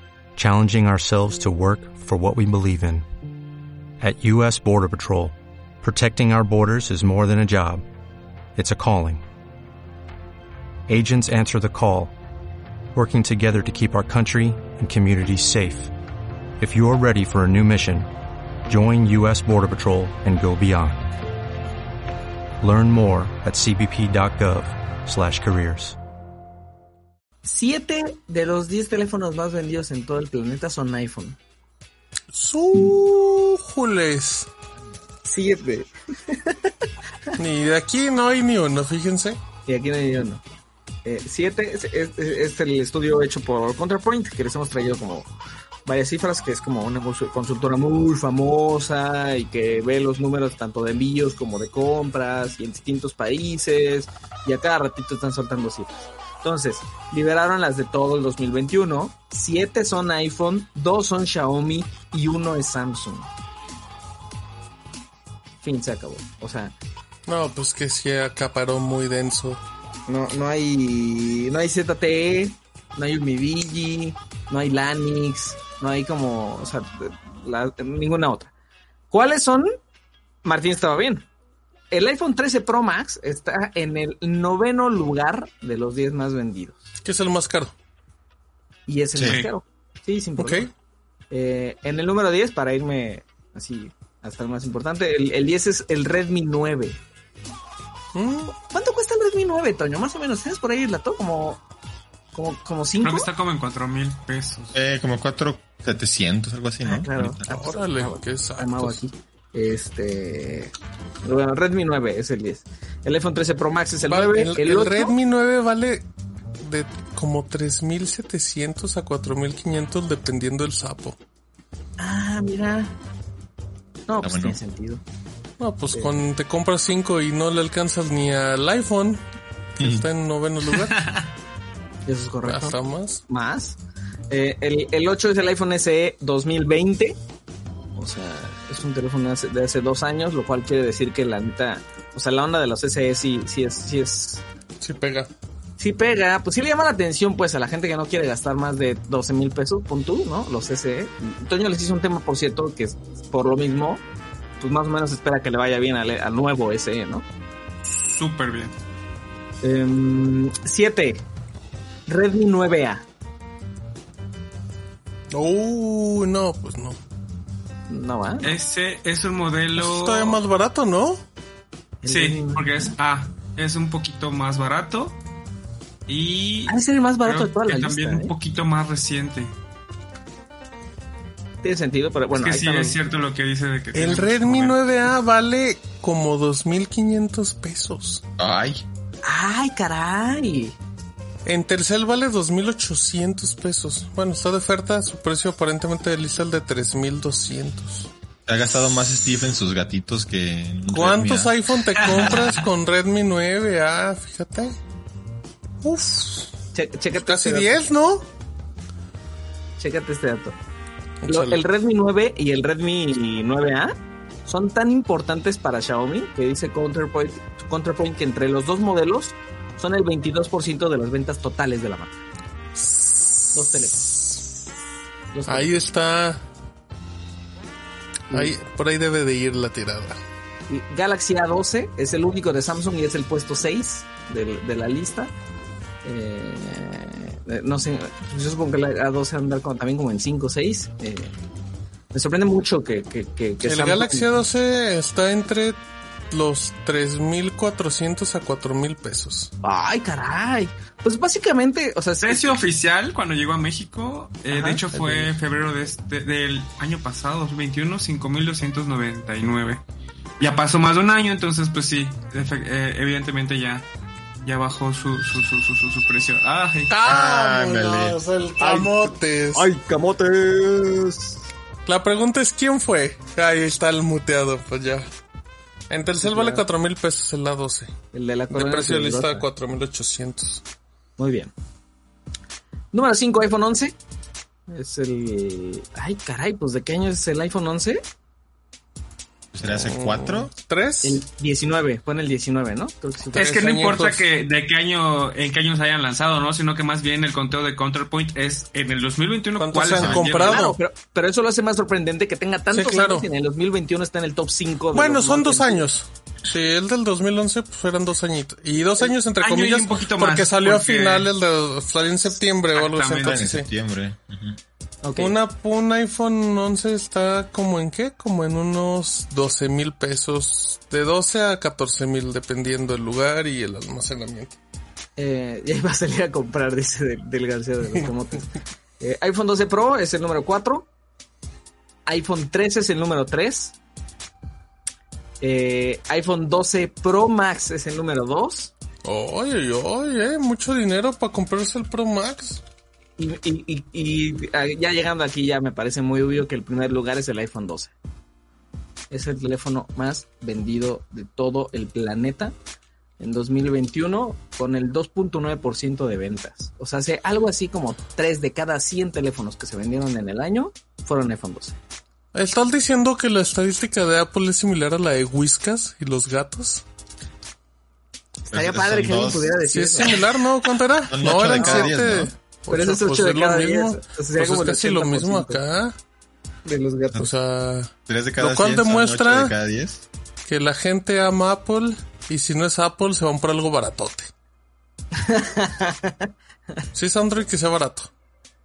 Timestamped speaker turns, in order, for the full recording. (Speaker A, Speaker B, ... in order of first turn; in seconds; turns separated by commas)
Speaker A: 0.4-3.0, Speaker A: 4.0-7.8, Speaker A: 8.6-9.2, Speaker A: 10.9-12.1, Speaker A: 12.9-15.9, Speaker A: 16.6-18.1, Speaker A: 18.7-21.1, Speaker A: 22.6-26.0, Speaker B: 27.4-31.4, Speaker C: 32.3-34.5, Speaker B: 35.2-36.7, Speaker C: 37.4-39.4, Speaker B: 39.7-40.4, Speaker B: 41.0-45.3, Speaker B: 45.9-63.3, Speaker B: 65.6-66.8, Speaker C: 67.3-69.6, Speaker B: 70.1-78.5, Speaker B: 79.1-79.7, Speaker B: 80.4-81.3, Speaker B: 81.9-86.8, Speaker C: 87.0-87.7, Speaker B: 88.9-90.7, Speaker D: 89.2-89.5, Speaker E: 89.2-89.5, Speaker C: 90.4-90.7, Speaker B: 91.3-97.0, Speaker C: 98.2-98.5, Speaker B: 98.5-101.6, Speaker B: 102.3-103.3, Speaker E: 103.0-104.8, Speaker D: 104.7-107.5, Speaker B: 106.8-115.2, Speaker C: 107.5-109.0, Speaker C: 114.1-116.1, Speaker C: 116.6-121.2, Speaker B: 122.0-123.0, Speaker B: 124.1-125.0, Speaker D: 124.2-124.6, Speaker C: 125.6-129.2, Speaker D: 129.8-130.1, Speaker C: 129.8-131.0, Speaker E: 130.9-131.3, Speaker B: 132.1-133.8, Speaker C: 132.4-133.2, Speaker B: 134.3-137.2, Speaker B: 137.9-144.4, Speaker C: 144.8-145.3, Speaker B: 145.8-154.0, Speaker B: 154.6-157.3, Speaker E: 157.9-158.7, Speaker B: 159.6-161.2, Speaker B: 162.1-163.1, Speaker C: 165.3-167.0, Speaker B: 167.9-168.6, Speaker E: 168.4-170.4, Speaker C: 169.8-171.2, Speaker B: 172.0-172.9, Speaker E: 172.1-175.2, Speaker E: 176.1-179.5, Speaker B: 176.7-178.3, Speaker B: 181.6-183.0, Speaker E: 182.3-184.8, Speaker C: 183.9-188.2, Speaker D: 188.4-188.8, Speaker B: 189.2-190.8, Speaker C: 191.5-198.1, Speaker D: 198.5-201.5, Speaker C: 200.9-204.8, Speaker D: 202.2-202.4, Speaker C: 205.8-206.6, Speaker B: 206.7-207.8, Speaker C: 207.2-208.3, Speaker B: 209.8-210.6, Speaker C: 211.2-211.6, Speaker B: 211.3-213.9, Speaker B: 214.5-222.2, Speaker C: 222.8-224.4, Speaker B: 223.5-224.3, Speaker B: 225.3-225.8, Speaker C: 225.5-226.4, Speaker B: 228.3-228.6, Speaker C: 228.3-230.2, Speaker B: 230.7-235.3, Speaker B: 236.1-241.3, Speaker B: 242.1-244.3, Speaker C: 243.6-249.5, Speaker B: 249.6-252.6, Speaker E: 252.2-259.8, Speaker B: 254.5-255.4, Speaker E: 260.4-263.9, Speaker E: 264.4-266.9, Speaker C: 266.9-269.7, Speaker D: 267.1-268.2, Speaker B: 268.6-271.4, Speaker C: 271.9-275.1, Speaker C: 275.9-277.9, Speaker B: 276.2-276.7, Speaker B: 278.1-279.5, Speaker C: 278.5-280.6, Speaker B: 281.2-281.5, Speaker B: 282.9-284.0, Speaker B: 284.7-288.0, Speaker D: 289.5-290.5, Speaker C: 289.6-291.2, Speaker B: 291.0-293.6, Speaker C: 293.3-294.3, Speaker E: 293.4-300.7, Speaker C: 299.6-300.8, Speaker D: 300.0-300.4, Speaker B: 300.4-305.9, Speaker C: 302.7-303.3, Speaker C: 304.9-313.7, Speaker E: 309.4-311.3, Speaker E: 312.7-313.4, Speaker D: 313.2-314.6, Speaker B: 315.0-315.4, Speaker C: 315.2-324.6, Speaker B: 325.2-330.9, Speaker B: 332.1-333.8, Speaker B: 335.4-338.7, Speaker C: 339.1-342.6, Speaker B: 343.2-347.9, Speaker B: 349.1-352.6, Speaker B: 353.2-361.8, Speaker C: 362.3-366.8, Speaker D: 368.5-369.6, Speaker B: 368.5-370.2, Speaker C: 369.6-376.0, Speaker D: 371.1-372.3, Speaker B: 371.6-371.9, Speaker B: 372.7-375.6, Speaker B: 376.6-377.3, Speaker C: 377.2-379.6, Speaker D: 378.1-380.1, Speaker C: 380.4-384.3, Speaker B: 385.2-386.3, Speaker C: 386.9-388.1